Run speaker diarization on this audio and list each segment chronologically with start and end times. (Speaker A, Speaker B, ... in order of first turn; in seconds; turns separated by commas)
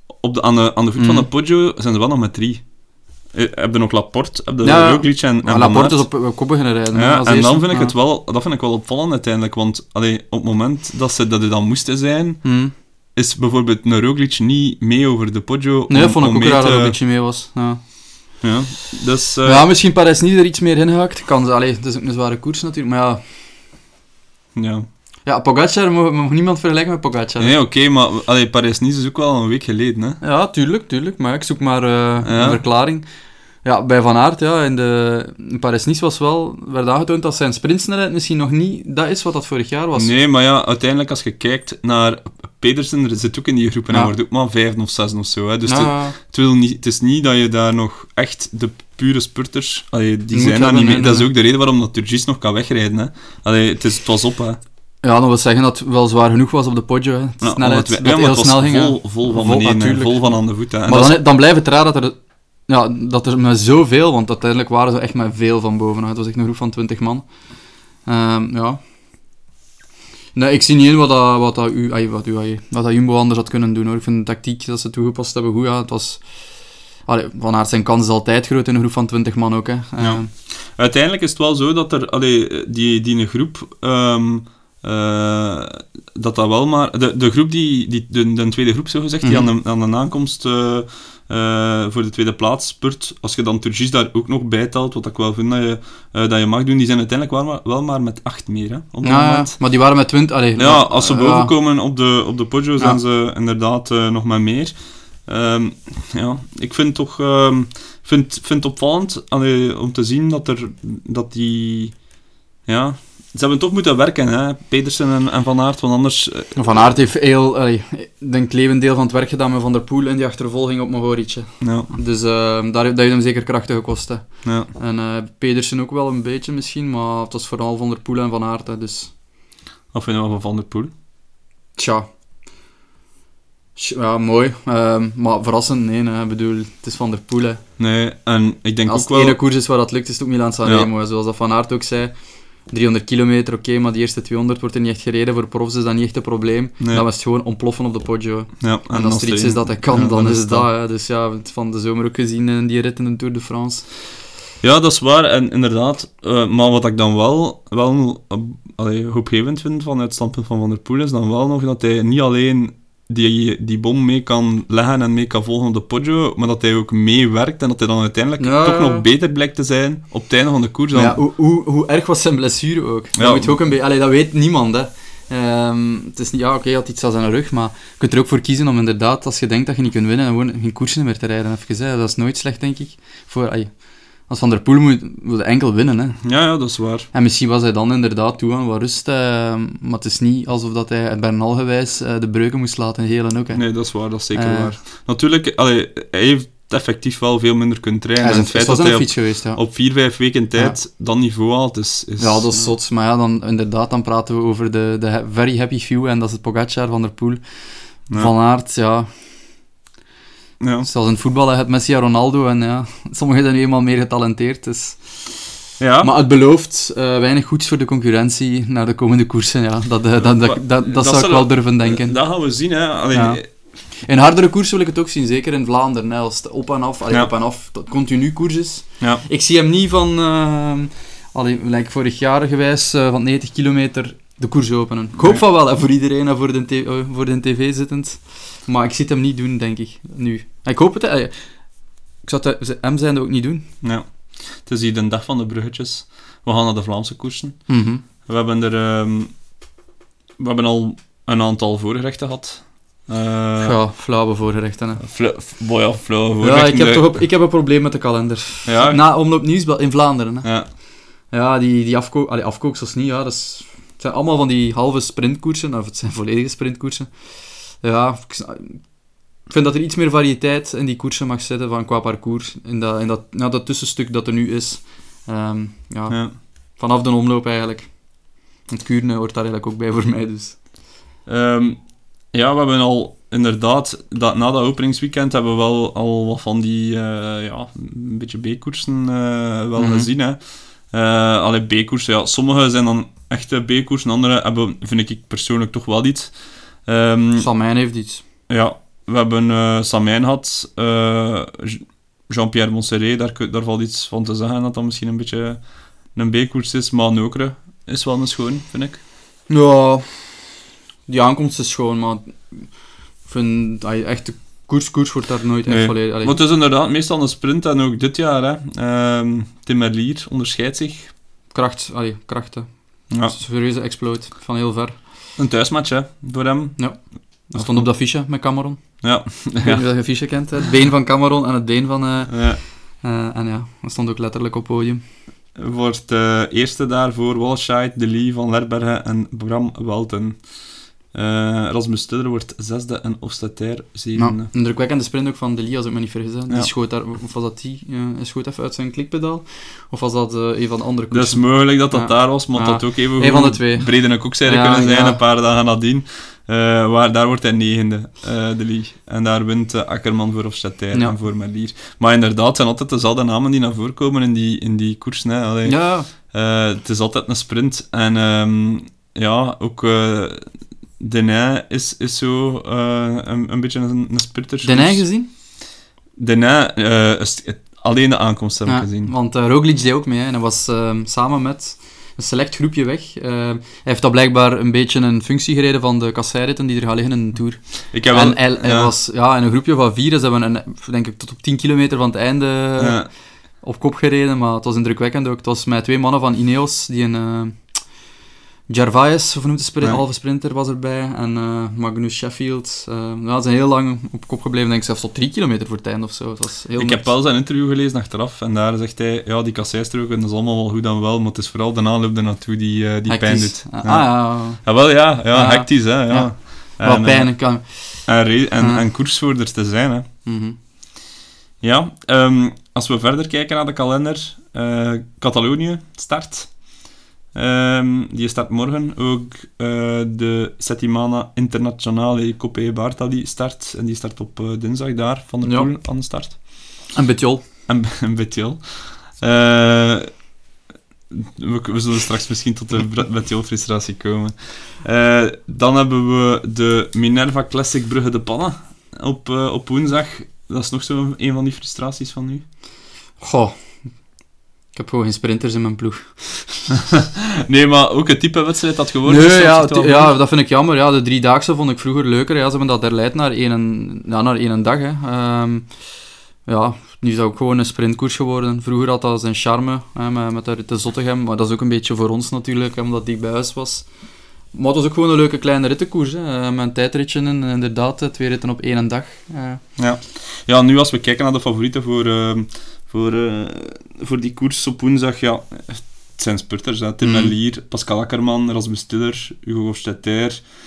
Speaker A: 0.2-2.6, Speaker B: 1.0-1.3, Speaker A: 3.3-6.1, Speaker B: 4.6-7.9, Speaker A: 6.9-12.4, Speaker B: 12.4-12.7, Speaker A: 13.2-17.0, Speaker B: 15.9-17.8, Speaker A: 18.4-19.7, Speaker B: 19.4-23.2, Speaker A: 24.6-24.9, Speaker B: 25.2-27.6, Speaker A: 27.4-30.2, Speaker B: 30.2-33.0, Speaker A: 32.2-32.6, Speaker B: 33.6-40.1, Speaker A: 40.0-54.6, Speaker B: 45.7-46.1, Speaker B: 50.3-51.3, Speaker B: 55.0-67.2, Speaker A: 57.4-61.2, Speaker B: 68.0-68.8, Speaker B: 70.3-76.2, Speaker B: 77.1-80.3, Speaker A: 80.0-99.5, Speaker B: 89.2-89.5, Speaker B: 99.0-101.5, Speaker A: 100.6-104.8, Speaker A: 105.3-112.0, Speaker A: 112.7-116.6, Speaker B: 116.6-129.1, Speaker A: 121.6-121.9, Speaker A: 124.4-124.7, Speaker A: 129.9-130.9, Speaker B: 131.8-132.1, Speaker B: 133.8-137.6, Speaker A: 137.8-139.4, Speaker B: 138.9-142.2, Speaker B: 142.7-153.9, Speaker A: 148.6-150.7, Speaker A: 154.6-171.2, Speaker B: 168.4-169.1, Speaker B: 170.9-183.7, Speaker A: 173.2-173.6, Speaker B: 184.3-186.2, Speaker A: 186.2-187.1, Speaker B: 187.1-194.8, Speaker A: 193.5-202.7, Speaker B: 198.2-199.6, Speaker B: 202.2-207.4, Speaker B: 208.1-209.1, Speaker A: 210.6-210.9, Speaker B: 210.8-215.1, Speaker A: 215.8-216.1, Speaker B: 216.0-222.2, Speaker A: 220.2-223.5, Speaker B: 223.1-223.4, Speaker B: 224.0-241.3, Speaker B: 242.2-243.7, Speaker A: 243.8-247.6, Speaker B: 247.7-248.0, Speaker A: 248.2-249.3, Speaker A: 250.4-253.8, Speaker B: 253.6-255.0, Speaker A: 255.0-257.2, Speaker B: 256.4-260.5, Speaker A: 258.6-259.0, Speaker B: 261.3-267.1, Speaker B: 267.8-268.9, Speaker B: 269.5-277.9, Speaker A: 276.1-276.4, Speaker B: 278.7-280.6, Speaker A: 281.3-297.5, Speaker B: 289.8-290.1, Speaker B: 297.4-298.2, Speaker A: 298.5-309.0, Speaker B: 309.5-310.1, Speaker B: 311.1-312.7, Speaker B: 313.2-316.4, Speaker A: 315.7-321.1, Speaker B: 321.5-325.0, Speaker A: 323.1-323.4, Speaker A: 325.4-326.8, Speaker B: 326.8-329.0, Speaker A: 327.5-327.9, Speaker A: 329.0-329.8, Speaker B: 329.6-332.5, Speaker A: 332.3-332.6, Speaker B: 333.0-335.0, Speaker A: 335.6-340.5, Speaker A: 341.1-344.5, Speaker B: 344.2-355.2, Speaker A: 351.1-370.4, Speaker B: 365.6-366.1, Speaker A: 371.0-375.1, Speaker B: 374.6-375.3, Speaker A: 376.2-379.1, Speaker B: 378.7-393.0, Speaker A: 387.9-388.9, Speaker A: 392.8-393.1, Speaker B: 393.6-397.6, Speaker B: 398.7-407.1, Speaker A: 406.8-417.4, Speaker B: 413.1-418.8, Speaker A: 418.1-420.1, Speaker B: 420.3-420.6, Speaker A: 421.6-426.5, Speaker A: 427.3-436.4, Speaker B: 435.4-435.7, Speaker B: 436.9-437.4, Speaker A: 437.7-440.1, Speaker A: 441.1-452.4, Speaker B: 453.2-453.6, Speaker B: 454.7-456.6, Speaker A: 456.7-460.1, Speaker B: 459.1-465.7, Speaker B: 466.5-473.9, Speaker B: 474.5-479.6, Speaker A: 479.8-490.4, Speaker B: 487.0-487.3